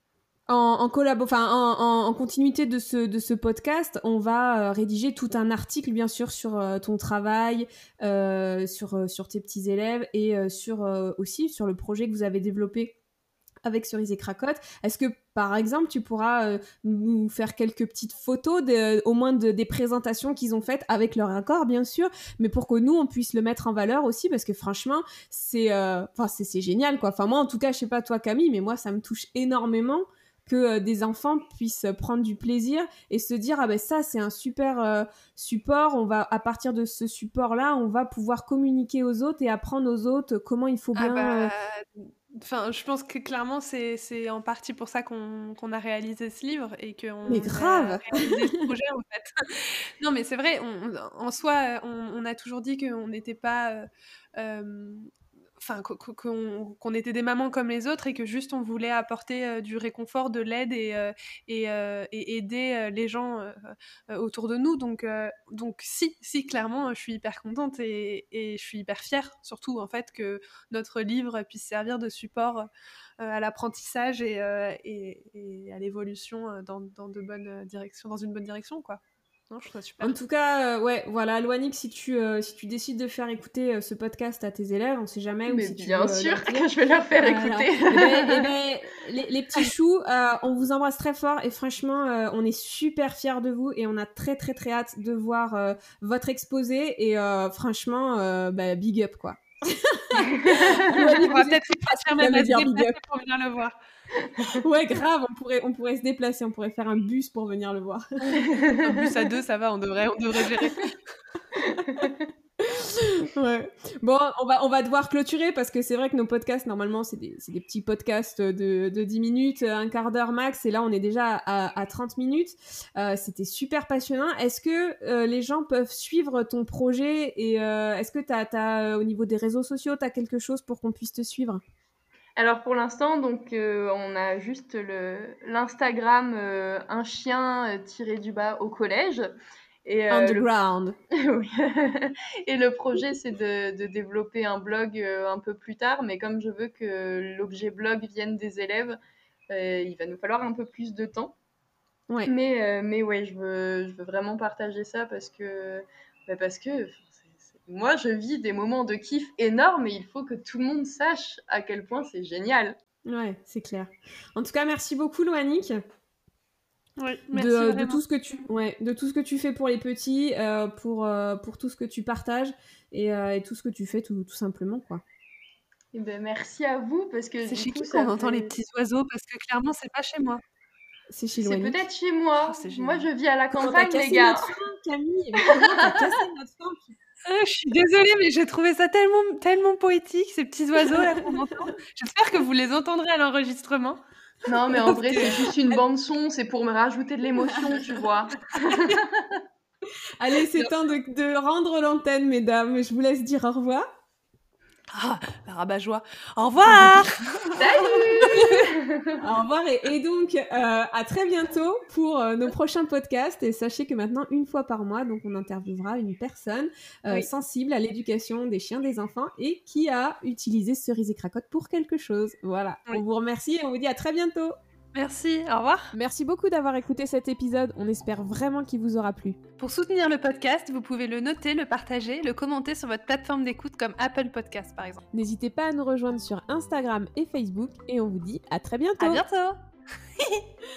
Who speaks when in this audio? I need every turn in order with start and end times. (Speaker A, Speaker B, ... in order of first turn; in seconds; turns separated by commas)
Speaker A: 0.5-12.9, Speaker A: 13.6-41.5, Speaker B: 40.9-72.7, Speaker A: 47.3-48.7, Speaker B: 73.2-80.1, Speaker A: 80.0-86.7, Speaker C: 85.5-88.5, Speaker A: 87.2-103.0, Speaker C: 100.3-101.0, Speaker B: 100.9-103.8, Speaker A: 104.5-108.2, Speaker C: 108.4-109.1, Speaker B: 108.8-111.0, Speaker C: 111.9-112.2, Speaker A: 112.6-131.6, Speaker C: 132.4-139.3, Speaker C: 139.8-140.5, Speaker A: 140.1-141.0, Speaker C: 141.1-149.0, Speaker C: 149.5-151.3, Speaker C: 152.2-162.8, Speaker A: 163.1-165.8, Speaker B: 167.0-168.0, Speaker A: 167.3-175.0, Speaker C: 175.9-178.5, Speaker B: 177.4-180.4, Speaker A: 181.1-181.8, Speaker C: 181.4-184.5, Speaker B: 182.4-183.1, Speaker A: 183.6-186.9, Speaker C: 185.4-186.0, Speaker B: 187.2-194.0, Speaker C: 194.4-199.3, Speaker B: 194.8-195.5, Speaker B: 198.6-198.9, Speaker A: 200.2-203.9, Speaker B: 204.9-207.6, Speaker A: 206.7-207.6, Speaker C: 207.6-209.2, Speaker B: 208.3-208.6, Speaker A: 209.2-224.6, Speaker B: 224.9-225.9, Speaker A: 225.9-229.4, Speaker B: 229.6-235.0, Speaker A: 235.1-239.2, Speaker B: 239.0-239.6, Speaker B: 240.2-240.4